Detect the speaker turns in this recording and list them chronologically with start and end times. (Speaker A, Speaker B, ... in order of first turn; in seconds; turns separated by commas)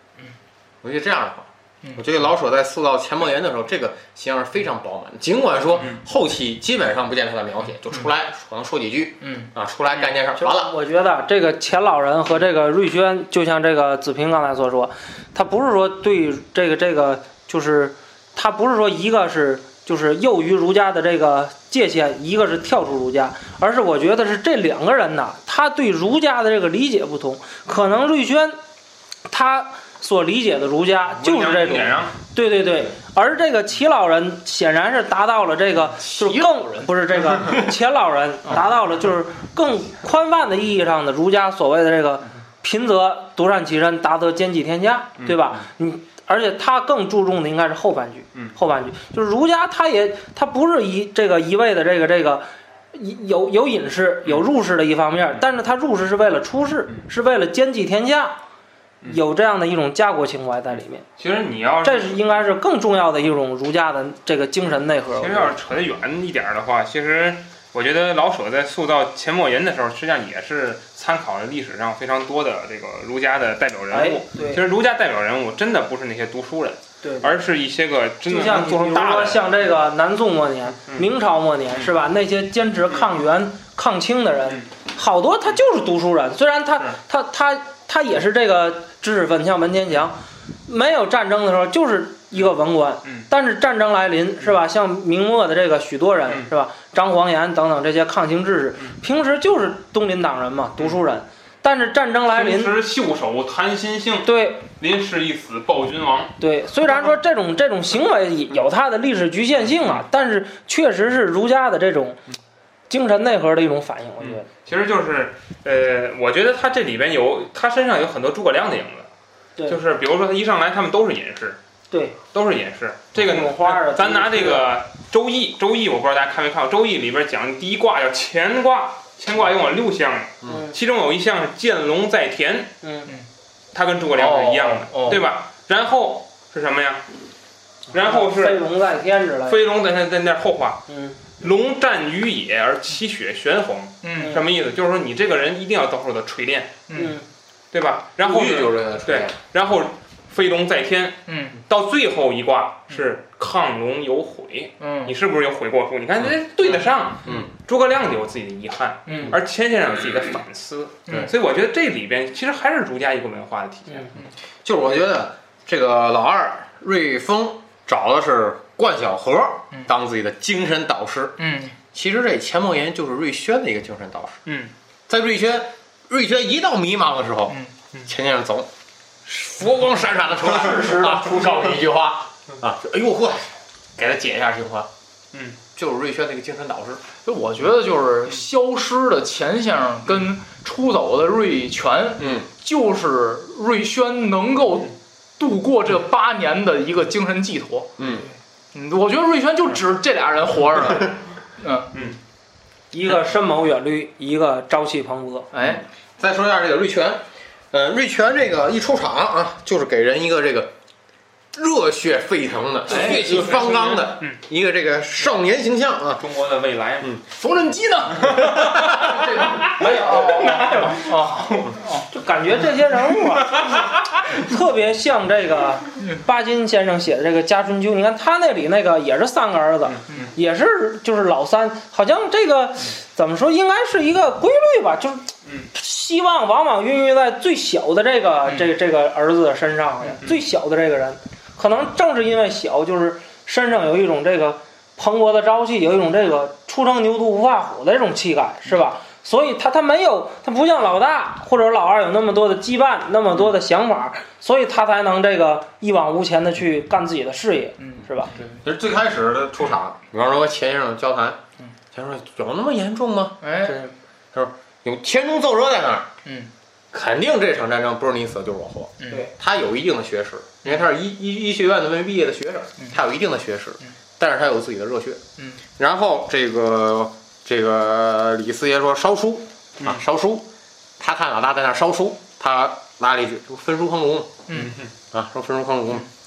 Speaker A: 0.8-10.7, Speaker B: 9.2-9.5, Speaker C: 10.3-28.6, Speaker C: 29.3-58.4, Speaker D: 31.1-32.1, Speaker B: 36.0-36.9, Speaker D: 45.2-45.5, Speaker C: 59.0-61.0, Speaker D: 61.2-62.3, Speaker C: 61.8-65.5, Speaker D: 65.1-79.7, Speaker C: 73.9-74.6, Speaker C: 77.0-77.3, Speaker C: 78.2-102.8, Speaker D: 102.3-106.3, Speaker C: 104.2-104.6, Speaker C: 106.4-112.2, Speaker D: 109.7-110.0, Speaker C: 112.9-114.5, Speaker D: 114.2-119.1, Speaker D: 119.7-121.6, Speaker C: 121.9-122.2, Speaker D: 122.3-132.8, Speaker C: 123.2-124.7, Speaker C: 130.4-130.7, Speaker C: 132.8-133.1, Speaker D: 133.7-137.1, Speaker B: 134.1-135.2, Speaker D: 137.9-138.7, Speaker C: 137.9-139.6, Speaker D: 139.4-140.8, Speaker C: 140.9-141.2, Speaker D: 141.4-146.8, Speaker B: 144.0-144.4, Speaker C: 144.2-144.4, Speaker B: 146.9-147.2, Speaker C: 146.9-147.2, Speaker D: 147.7-164.1, Speaker A: 148.2-149.3, Speaker B: 151.3-151.6, Speaker B: 154.8-155.1, Speaker B: 159.1-159.3, Speaker A: 164.6-171.4, Speaker B: 171.4-171.8, Speaker A: 171.9-174.4, Speaker D: 174.4-174.7, Speaker A: 175.1-178.7, Speaker B: 177.5-177.7, Speaker A: 179.2-184.9, Speaker C: 180.6-181.3, Speaker D: 185.3-185.6, Speaker A: 185.7-187.0, Speaker B: 187.2-197.9, Speaker A: 192.2-192.5, Speaker A: 198.0-198.3, Speaker B: 198.7-201.9, Speaker C: 202.9-205.5, Speaker B: 205.5-205.8, Speaker A: 206.2-210.7, Speaker A: 211.5-216.2, Speaker B: 212.9-213.6, Speaker D: 213.0-214.4, Speaker D: 216.2-217.1, Speaker B: 217.3-222.1, Speaker D: 218.3-221.5, Speaker A: 218.5-218.9, Speaker C: 219.8-220.7, Speaker C: 222.1-258.3, Speaker B: 257.8-258.0, Speaker A: 258.6-261.4, Speaker A: 261.9-263.4, Speaker B: 263.4-263.8, Speaker A: 264.3-266.1, Speaker B: 266.2-266.5, Speaker A: 266.9-275.2, Speaker B: 269.0-269.3, Speaker B: 275.4-275.6, Speaker A: 275.8-280.5, Speaker A: 281.0-284.4, Speaker B: 284.5-284.8, Speaker D: 284.5-284.9, Speaker A: 285.1-286.1